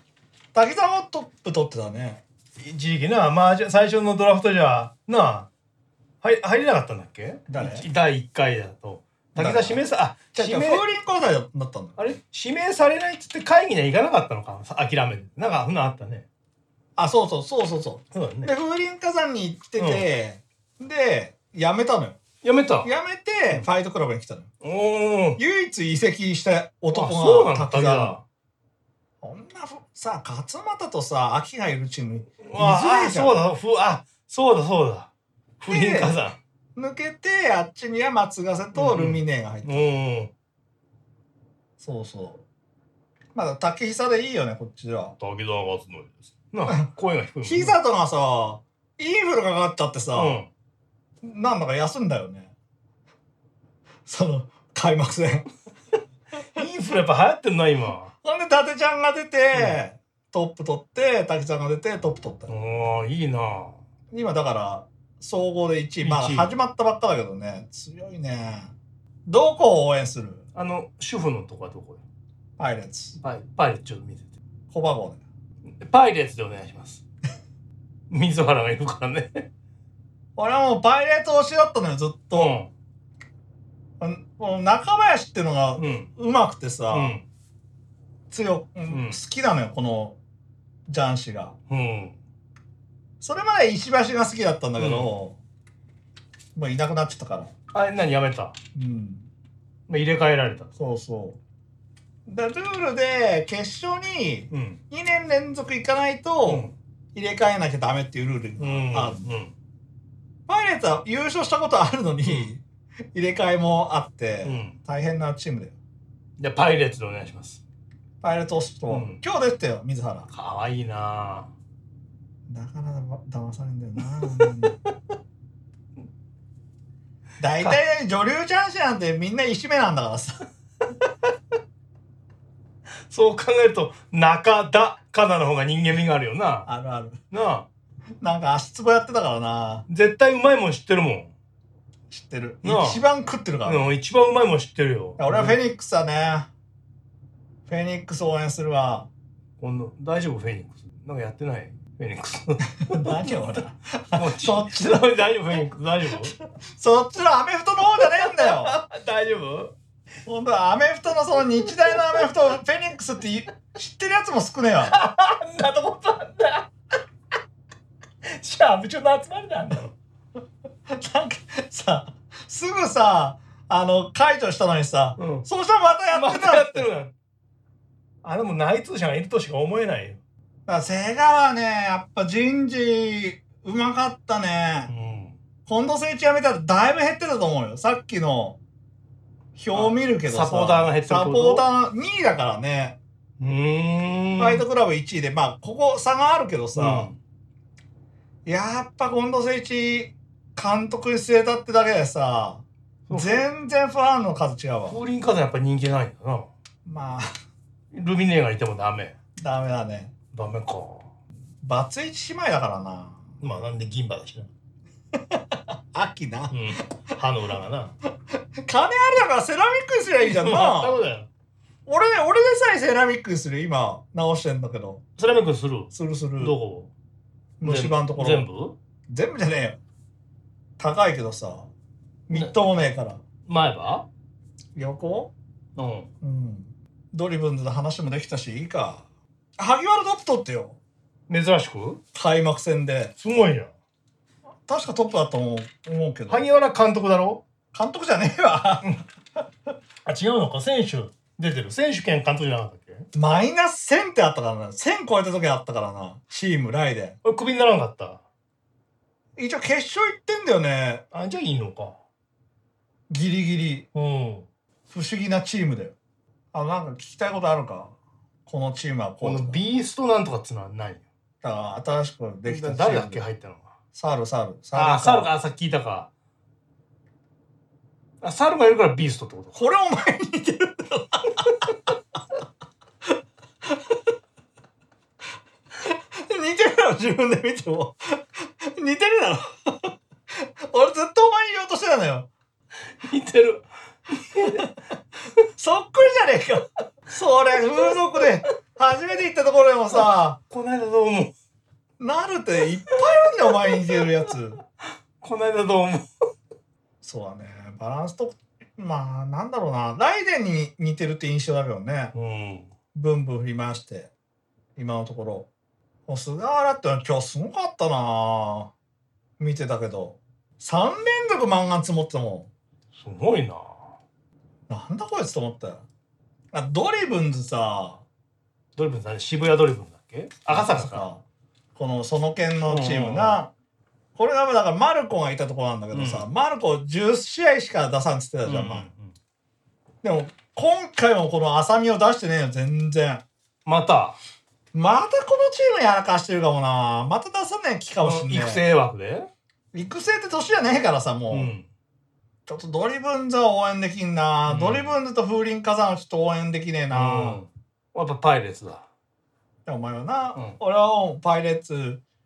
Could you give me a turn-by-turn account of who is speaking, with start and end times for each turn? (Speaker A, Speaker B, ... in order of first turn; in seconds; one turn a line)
Speaker A: 0.5-2.2
Speaker B: 2.6-5.5
Speaker B: 6.2-10.8
Speaker A: 7.5-7.9
Speaker A: 9.3-9.8
Speaker A: 10.3-12.0
Speaker B: 12.0-16.2
Speaker A: 17.0-22.2
Speaker B: 18.1-18.5
Speaker B: 19.8-20.1
Speaker B: 22.4-22.9
Speaker A: 22.8-24.5
Speaker B: 24.6-25.4
Speaker A: 25.4-28.2
Speaker B: 26.9-28.2
Speaker A: 29.2-33.4
Speaker B: 32.4-36.4
Speaker A: 35.7-36.2
Speaker A: 36.8-39.9
Speaker B: 38.7-40.3
Speaker A: 41.8-42.4
Speaker A: 43.3-45.1
Speaker B: 45.2-47.8
Speaker A: 47.4-50.4
Speaker B: 50.1-50.5
Speaker A: 51.2-52.5
Speaker A: 54.0-55.5
Speaker B: 56.5-58.1
Speaker A: 58.2-62.5
Speaker B: 59.5-59.8
Speaker B: 62.5-63.8
Speaker A: 64.1-68.7
Speaker B: 66.0-66.5
Speaker A: 69.3-70.4
Speaker B: 70.5-72.0
Speaker A: 72.6-73.2
Speaker B: 73.2-74.3
Speaker A: 74.7-75.2
Speaker B: 75.7-77.0
Speaker B: 78.1-79.5
Speaker A: 80.4-82.5
Speaker B: 82.3-82.7
Speaker A: 84.0-87.2
Speaker B: 85.8-86.1
Speaker B: 86.9-87.2
Speaker A: 88.3-90.2
Speaker B: 88.9-89.2
Speaker A: 90.9-91.5
Speaker B: 91.7-92.2
Speaker A: 93.2-95.4
Speaker B: 94.8-95.1
Speaker A: 96.5-97.5
Speaker B: 97.7-98.5
Speaker A: 98.7-99.3
Speaker B: 99.9-100.7
Speaker A: 100.8-101.4
Speaker A: 102.2-109.3
Speaker B: 104.5-104.8
Speaker B: 106.5-106.7
Speaker B: 108.6-109.5
Speaker A: 110.5-112.6
Speaker B: 112.2-112.5
Speaker A: 113.1-115.7
Speaker B: 114.4-114.8
Speaker B: 116.4-117.6
Speaker A: 118.2-120.3
Speaker B: 118.9-119.2
Speaker B: 120.3-121.5
Speaker A: 122.5-124.7
Speaker B: 124.2-124.7
Speaker A: 127.4-130.4
Speaker B: 133.1-136.7
Speaker A: 136.7-137.2
Speaker B: 137.3-137.7
Speaker A: 138.2-139.8
Speaker B: 139.9-141.3
Speaker A: 142.1-143.9
Speaker B: 142.6-143.0
Speaker B: 143.6-145.6
Speaker A: 145.2-146.5
Speaker A: 147.7-149.1
Speaker B: 149.6-153.6
Speaker A: 152.9-155.0
Speaker B: 154.1-156.3
Speaker A: 156.2-158.8
Speaker B: 158.0-159.7
Speaker A: 160.2-164.9
Speaker B: 161.6-162.3
Speaker B: 164.8-166.7
Speaker B: 168.3-169.9
Speaker A: 170.9-176.9
Speaker B: 175.2-175.4
Speaker B: 176.1-177.1
Speaker B: 178.2-180.2
Speaker A: 180.7-184.9
Speaker B: 184.9-185.4
Speaker A: 185.7-188.6
Speaker A: 189.6-192.9
Speaker B: 189.7-191.7
Speaker B: 193.4-194.6
Speaker A: 194.4-197.1
Speaker B: 196.8-197.2
Speaker A: 198.4-205.0
Speaker B: 203.1-203.5
Speaker B: 204.9-206.5
Speaker A: 206.8-207.3
Speaker B: 207.9-209.2
Speaker A: 209.4-210.1
Speaker B: 210.3-211.1
Speaker A: 211.6-213.4
Speaker B: 213.4-214.5
Speaker A: 215.9-216.6
Speaker B: 216.5-217.9
Speaker A: 218.6-221.0
Speaker B: 220.2-221.3
Speaker A: 221.9-225.0
Speaker B: 225.2-226.9
Speaker A: 225.9-226.6
Speaker A: 227.6-228.5
Speaker B: 227.6-228.8
Speaker A: 229.1-229.8
Speaker A: 230.8-231.7
Speaker A: 232.3-233.2
Speaker B: 233.5-234.1
Speaker A: 234.8-235.3
Speaker B: 235.8-236.1
Speaker A: 236.2-239.0
Speaker A: 239.6-240.8
Speaker B: 241.3-242.0
Speaker A: 242.1-243.1
Speaker B: 243.2-243.7
Speaker A: 244.7-246.4
Speaker B: 246.3-247.4
Speaker A: 247.7-248.9
Speaker B: 250.1-253.1
Speaker A: 253.1-257.2
Speaker B: 257.2-258.2
Speaker A: 259.4-261.0
Speaker B: 261.1-261.9
Speaker A: 263.1-263.9
Speaker B: 263.9-264.5
Speaker A: 264.9-265.9
Speaker A: 266.5-267.9
Speaker A: 268.4-269.7
Speaker B: 269.2-271.0
Speaker A: 271.4-273.3
Speaker B: 272.4-273.7
Speaker A: 273.9-275.3
Speaker B: 274.7-276.1
Speaker B: 278.2-279.6
Speaker A: 279.5-281.4
Speaker A: 285.9-292.3
Speaker B: 293.0-294.7
Speaker A: 295.6-300.4
Speaker B: 297.8-298.2
Speaker B: 299.9-301.3
Speaker A: 302.0-304.6
Speaker B: 303.7-304.3
Speaker B: 305.2-306.0
Speaker A: 307.0-312.1
Speaker B: 312.1-312.7
Speaker A: 312.9-314.1
Speaker A: 314.8-315.5
Speaker A: 316.1-318.7
Speaker A: 319.4-322.5
Speaker B: 322.9-323.8
Speaker A: 324.7-325.8
Speaker A: 326.5-328.0
Speaker B: 328.8-331.1
Speaker A: 330.5-331.2
Speaker A: 331.8-333.5
Speaker B: 332.7-333.4
Speaker A: 334.1-338.9
Speaker B: 335.9-336.3
Speaker B: 338.4-339.1
Speaker A: 340.0-343.2
Speaker B: 343.6-344.2
Speaker A: 344.7-348.6
Speaker B: 348.0-349.3
Speaker A: 349.7-351.5
Speaker B: 351.3-351.6
Speaker A: 352.5-357.4
Speaker B: 354.4-354.9
Speaker B: 356.9-358.9
Speaker A: 359.6-362.0